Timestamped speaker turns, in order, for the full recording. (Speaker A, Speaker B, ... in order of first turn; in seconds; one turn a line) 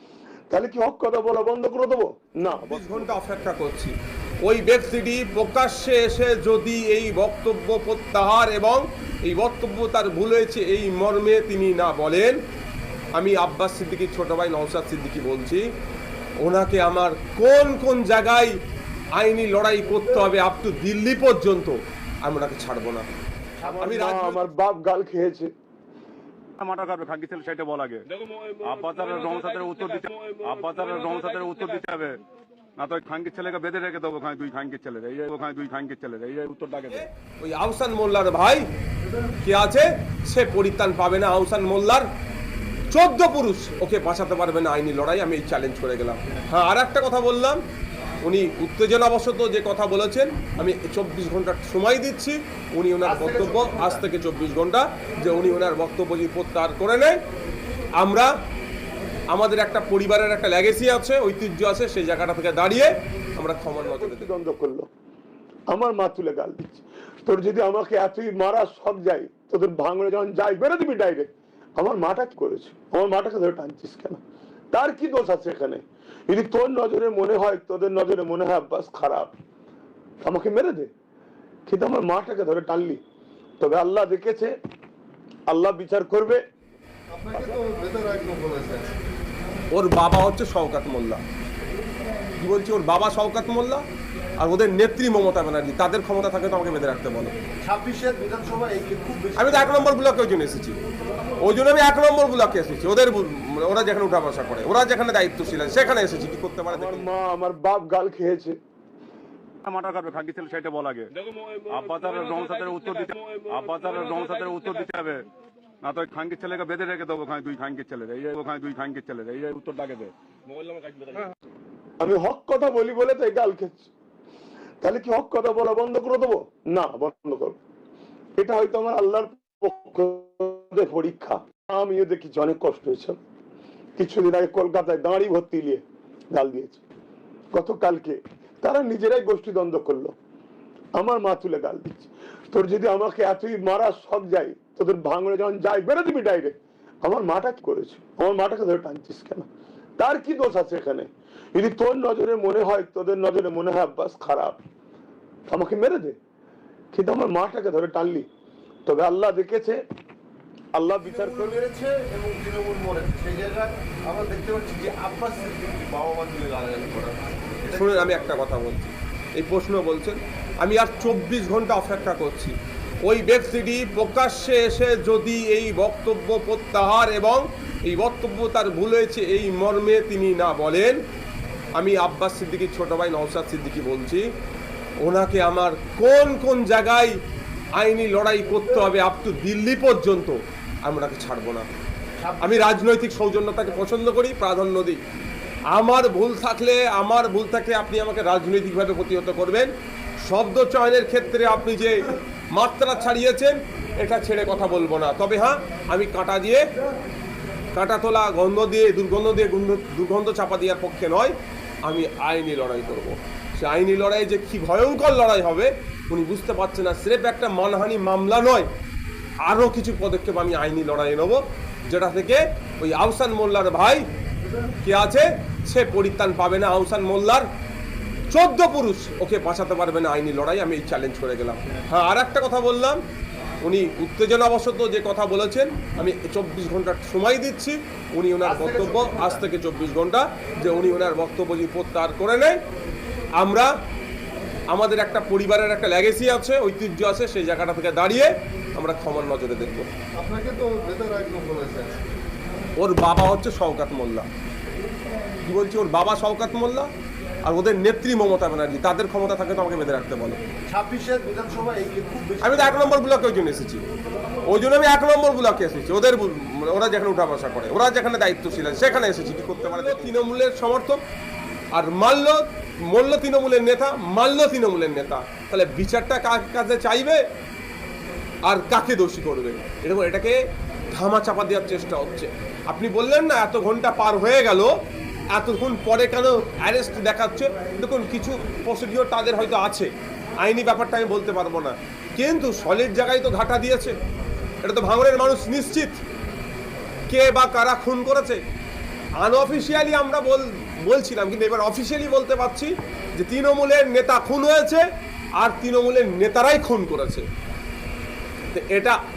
Speaker A: 0.5-3.2
Speaker B: 2.5-12.4
Speaker B: 13.2-15.6
Speaker B: 16.4-18.6
Speaker B: 19.1-23.1
Speaker C: 23.6-24.0
Speaker A: 23.6-25.5
Speaker B: 23.8-24.4
Speaker D: 26.6-32.2
Speaker D: 32.8-37.0
Speaker B: 36.9-38.6
Speaker B: 39.4-42.0
Speaker B: 42.9-47.6
Speaker B: 48.2-57.2
Speaker C: 53.0-54.0
Speaker B: 58.0-58.3
Speaker B: 59.3-64.3
Speaker A: 63.8-64.9
Speaker A: 65.7-74.2
Speaker A: 74.7-79.3
Speaker A: 80.2-80.9
Speaker A: 81.7-83.0
Speaker A: 83.6-84.5
Speaker A: 85.5-86.4
Speaker C: 87.1-88.9
Speaker B: 89.7-91.2
Speaker B: 92.4-93.8
Speaker B: 94.4-97.3
Speaker C: 97.6-99.9
Speaker B: 99.3-100.8
Speaker B: 101.4-107.0
Speaker A: 106.7-108.6
Speaker D: 109.6-115.2
Speaker D: 115.8-120.1
Speaker D: 120.7-121.3
Speaker A: 122.0-123.9
Speaker A: 124.8-127.6
Speaker A: 128.4-133.2
Speaker A: 134.0-136.8
Speaker A: 137.5-140.1
Speaker A: 141.0-149.5
Speaker A: 150.0-154.6
Speaker A: 155.5-156.2
Speaker A: 156.9-158.3
Speaker A: 158.8-159.8
Speaker A: 160.7-161.6
Speaker C: 161.0-168.4
Speaker B: 167.7-181.0
Speaker B: 181.8-184.2
Speaker B: 185.0-187.2
Speaker B: 187.8-191.7
Speaker C: 192.2-192.8
Speaker B: 192.4-195.0
Speaker B: 195.7-199.7
Speaker B: 200.2-206.6
Speaker B: 207.7-218.7
Speaker B: 219.4-224.0
Speaker B: 224.8-227.4
Speaker B: 228.3-233.0
Speaker B: 233.6-242.6
Speaker C: 238.4-239.4
Speaker B: 243.4-243.7
Speaker B: 244.7-249.9
Speaker C: 250.1-252.0
Speaker B: 252.8-254.3
Speaker B: 255.4-256.9
Speaker B: 257.4-260.4
Speaker C: 260.7-262.9
Speaker B: 262.4-263.8
Speaker B: 264.4-271.0
Speaker B: 271.7-277.2
Speaker B: 278.4-280.4
Speaker B: 280.9-284.7
Speaker B: 285.3-289.9
Speaker B: 290.4-293.9
Speaker B: 294.6-296.0
Speaker B: 297.1-298.4
Speaker B: 299.2-304.8
Speaker B: 305.4-307.2
Speaker B: 308.5-308.9